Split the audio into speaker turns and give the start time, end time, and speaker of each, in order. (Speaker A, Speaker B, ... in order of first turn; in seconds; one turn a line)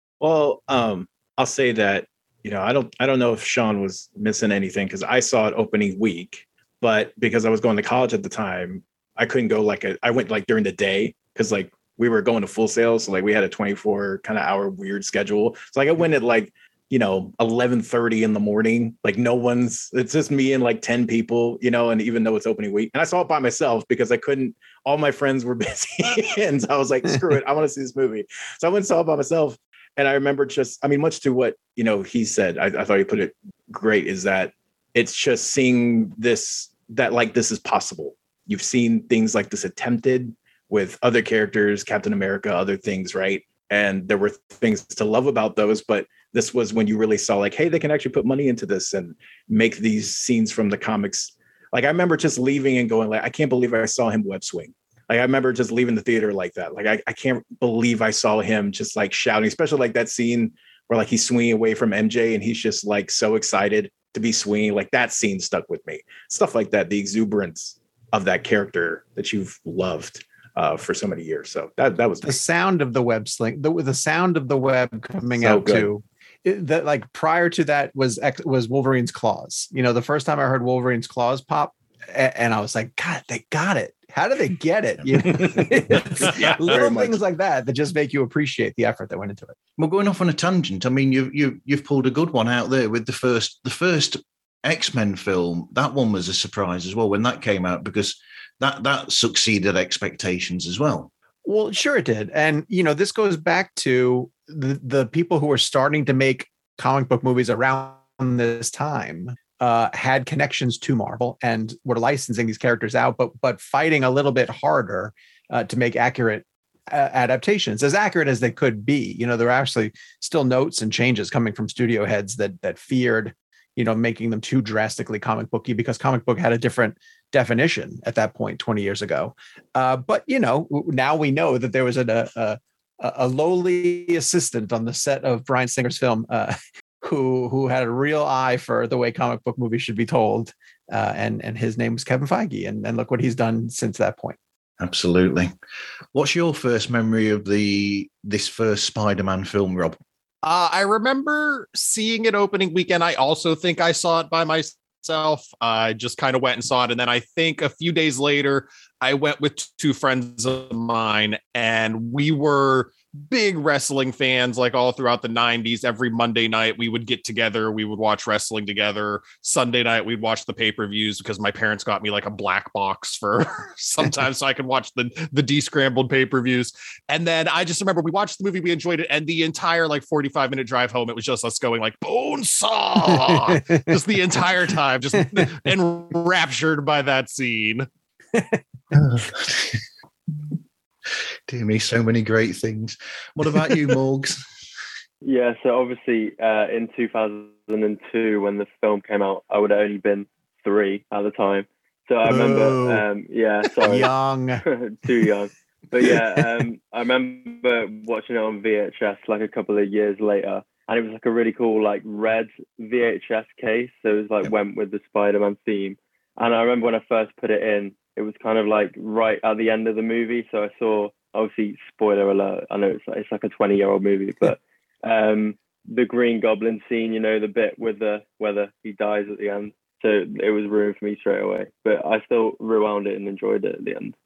Speaker A: 0.2-72.3
Speaker B: 72.2-89.5
Speaker A: 75.4-75.9
Speaker A: 85.3-87.2
Speaker C: 89.8-101.1
Speaker B: 101.4-144.4
Speaker C: 144.8-145.5
Speaker C: 146.1-150.0
Speaker D: 150.4-187.9
Speaker B: 183.5-183.8
Speaker C: 188.9-189.8
Speaker C: 191.5-194.4
Speaker E: 195.2-234.1
Speaker B: 202.2-203.0
Speaker B: 203.8-204.6
Speaker B: 206.1-206.4